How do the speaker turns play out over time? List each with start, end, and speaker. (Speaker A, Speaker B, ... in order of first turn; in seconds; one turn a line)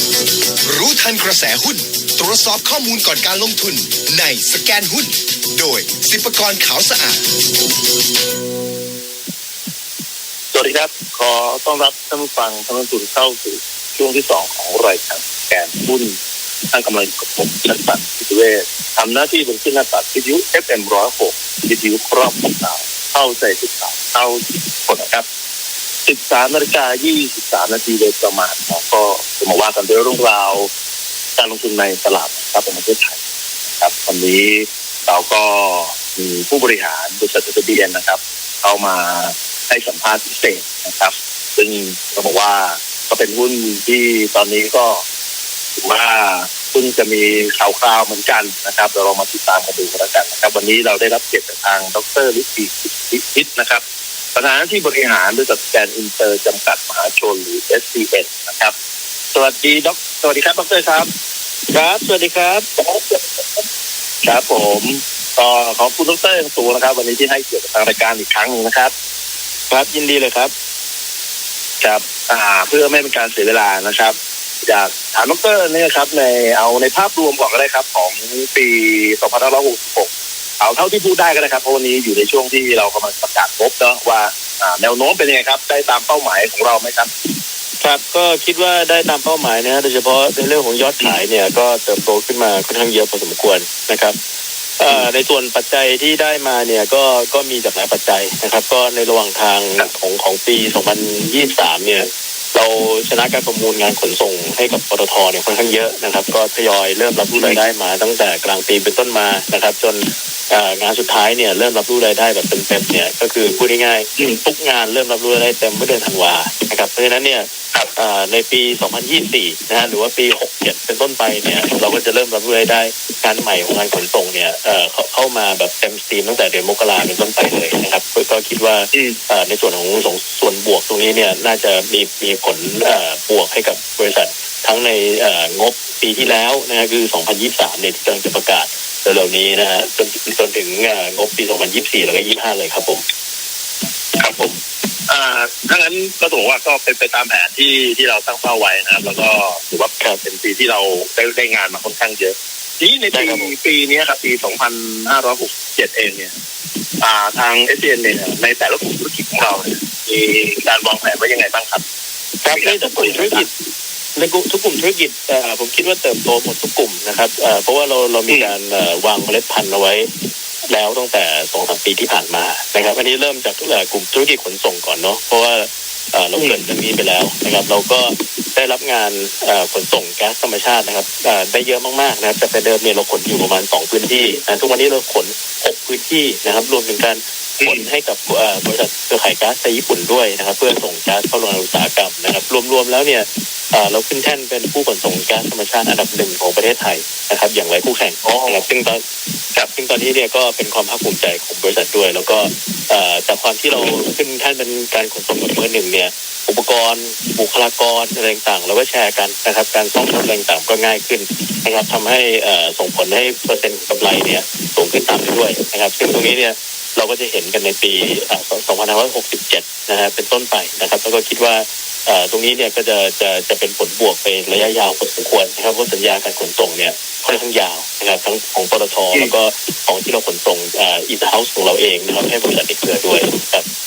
Speaker A: 0.7-7.3
Speaker B: 10.5-16.2
Speaker B: 16.7-25.2
Speaker B: 26.1-30.7
Speaker B: 31.4-33.2
Speaker B: 33.7-45.0
Speaker B: 45.8-53.8
Speaker B: 54.3-58.7
Speaker B: 59.3-61.1
Speaker C: 61.7-62.7
Speaker B: 62.8-63.6
Speaker B: 64.2-68.9
Speaker C: 69.7-70.5
Speaker B: 71.8-87.3
Speaker C: 87.8-94.2
Speaker C: 94.8-143.0
Speaker B: 107.3-107.6
Speaker B: 128.9-129.2
Speaker C: 144.2-144.5
Speaker B: 145.1-156.3
Speaker C: 153.1-153.5
Speaker B: 157.0-161.8
Speaker C: 162.4-163.5
Speaker B: 162.5-163.4
Speaker C: 164.2-170.1
Speaker C: 170.7-199.0
Speaker B: 176.3-176.6
Speaker B: 198.2-198.6
Speaker C: 199.5-233.7